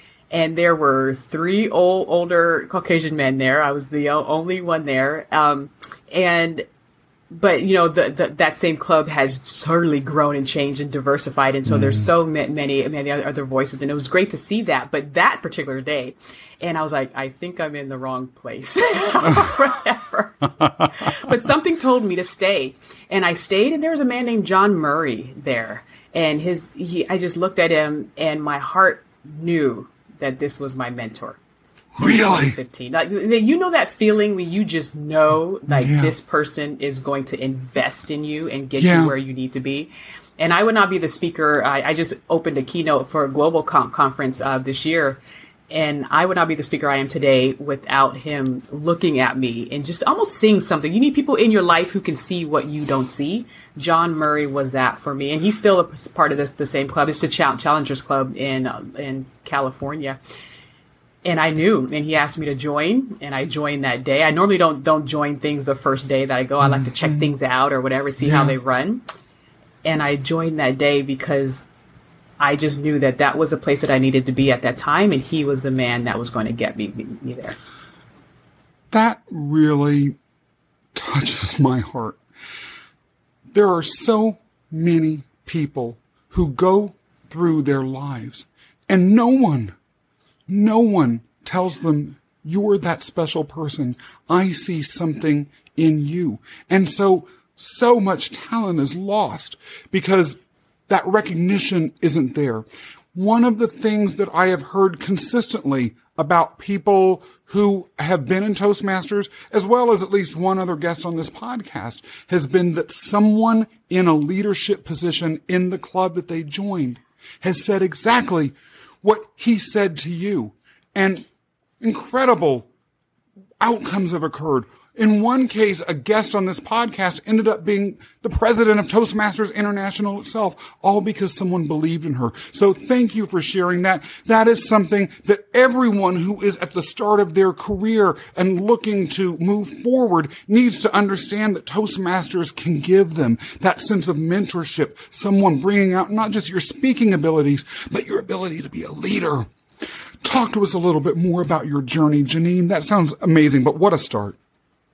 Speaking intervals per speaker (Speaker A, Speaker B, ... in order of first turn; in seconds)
Speaker A: 0.3-6.7, 7.3-31.4, 32.0-45.2, 45.7-60.2, 61.2-69.0, 69.8-71.7, 72.4-77.6
Speaker B: 11.7-12.1, 32.0-32.6, 35.7-36.1, 38.8-39.1, 66.7-67.2, 68.2-68.5, 78.9-80.2, 80.9-82.2, 83.5-89.7, 90.5-100.4, 100.9-121.2, 121.8-122.7, 123.6-149.5, 150.2-154.4